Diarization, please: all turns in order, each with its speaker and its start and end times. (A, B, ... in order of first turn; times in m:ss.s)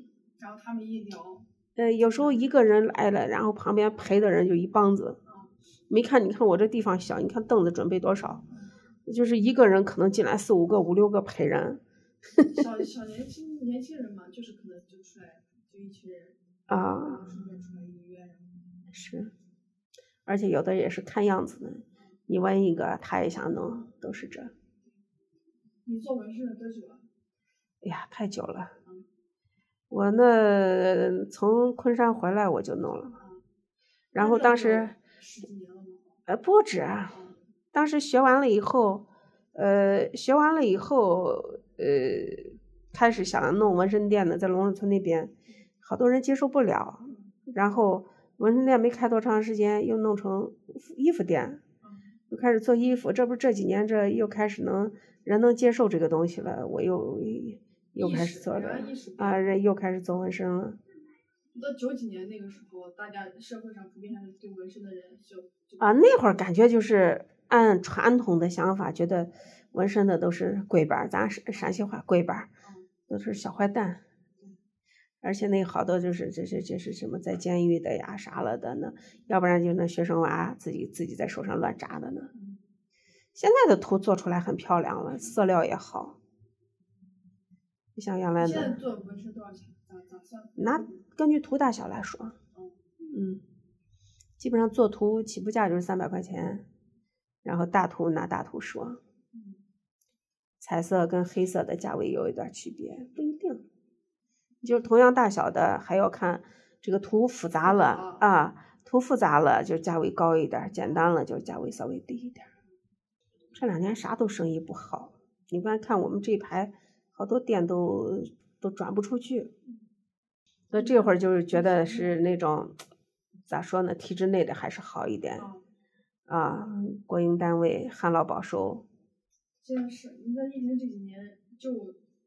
0:00.4-0:02.5 A
0:01.8-0:05.2 B
0:05.3-0:05.5 A
0:05.9-0:08.4 B
0:09.1-0:11.8 B
0:12.5-0:18.5 A
0:16.7-0:17.2 B
0:18.9-0:19.3 B
0:20.3-0:24.5 B
0:25.8-0:27.1 A
0:27.8-0:28.7 B
0:29.9-0:33.2 B
0:33.2-0:33.4 A
0:34.2-0:35.0 B
0:34.2-0:36.2 A
0:36.3-0:37.1 B
0:37.1-0:37.4 A
0:37.7-0:51.6 B
0:47.1-0:47.3 A
0:51.8-0:52.2 A
0:52.3-1:00.8 B
0:58.0-0:59.5 A
1:01.5-1:06.0 A
1:05.8-1:12.5 B
1:12.6-1:12.9 A
1:13.1-1:14.0 B
1:15.2-1:22.3 B
1:22.3-1:22.6 A
1:23.4-1:26.2 B
1:28.0-1:28.8 B
1:28.4-1:31.0 A
1:30.6-1:32.4 B
1:32.5-1:32.8 A
1:33.0-1:33.4 B
1:34.4-1:36.7 B
1:37.4-1:39.0 B
1:39.3-1:39.6 A
1:40.6-1:43.6 B
1:44.6-1:52.5 B
1:47.6-1:48.3 A
1:53.5-1:59.5 B
2:00.7-2:02.8 B
2:00.7-2:02.2 A
2:03.5-2:05.5 B
2:05.4-2:05.7 A
2:06.3-2:08.8 B
2:09.6-2:12.0 A